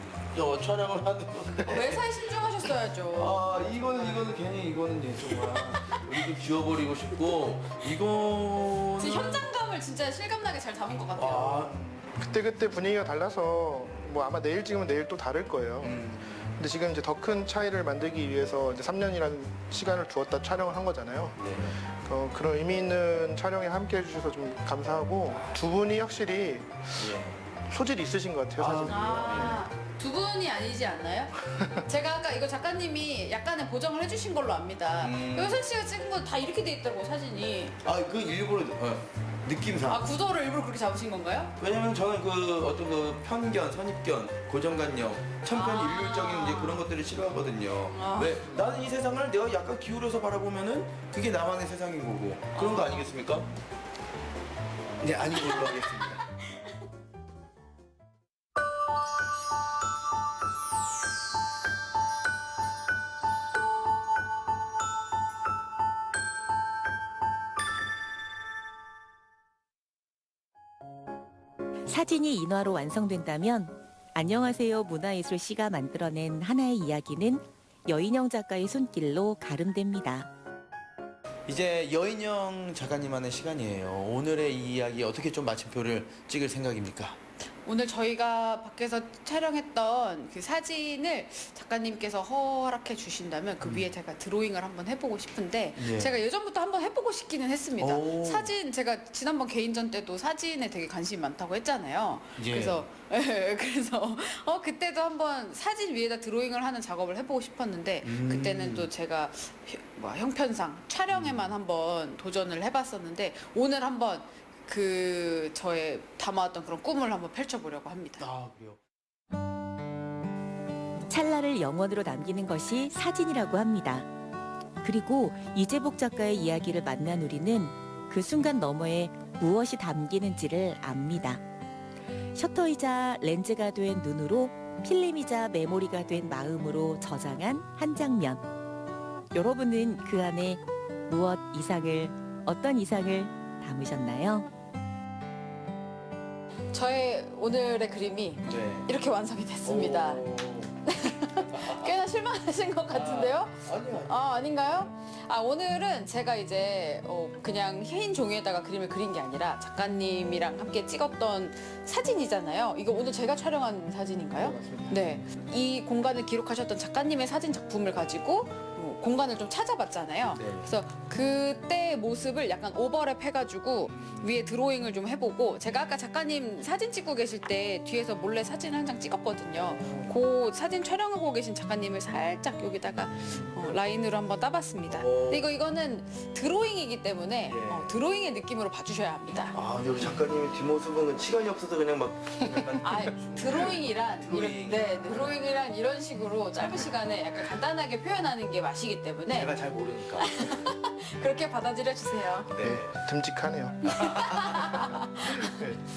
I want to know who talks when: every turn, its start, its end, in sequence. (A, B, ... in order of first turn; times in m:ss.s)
0:00.3-0:02.2 A
0:01.7-0:04.3 B
0:03.1-0:09.5 A
0:05.4-0:06.1 B
0:09.0-0:11.7 B
0:11.2-0:11.8 A
0:11.8-0:27.2 C
0:15.8-0:16.5 A
0:21.4-0:21.8 A
0:27.0-0:27.4 A
0:27.7-0:29.6 C
0:28.6-0:29.6 A
0:28.9-0:37.8 B
0:31.5-0:31.8 C
0:35.0-0:35.6 A
0:37.8-0:40.1 A
0:39.9-0:41.5 B
0:41.6-0:53.5 A
0:45.5-0:46.9 B
0:47.9-0:48.6 B
0:52.6-0:53.1 B
0:55.0-0:56.2 A
0:55.3-0:56.1 B
1:11.9-1:20.3 D
1:21.5-1:27.2 A
1:27.6-1:58.2 B
1:33.6-1:33.9 A
1:35.8-1:36.1 A
1:37.8-1:38.5 A
1:42.4-1:42.8 A
1:48.0-1:48.9 A
1:51.1-1:51.4 A
1:58.2-1:58.8 A
2:01.1-2:04.1 D
2:04.8-2:11.4 D
2:12.4-2:18.4 D
2:19.3-2:24.5 D
2:26.7-2:30.3 B
2:28.4-2:28.9 A
2:29.6-2:30.8 A
2:30.8-3:09.6 B
2:31.4-2:32.0 A
2:32.9-2:34.7 A
2:44.4-2:45.0 C
2:50.4-2:50.7 A
2:59.7-3:00.1 A
3:03.0-3:03.8 A
3:04.9-3:05.4 A
3:07.5-3:07.9 A
3:09.5-3:15.4 A
3:12.8-3:19.5 B
3:19.3-3:20.4 A
3:20.2-3:22.5 B
3:22.5-3:23.0 A
3:22.6-3:24.0 C
3:23.8-3:25.6 B
3:24.0-3:25.0 A
3:25.5-3:25.8 C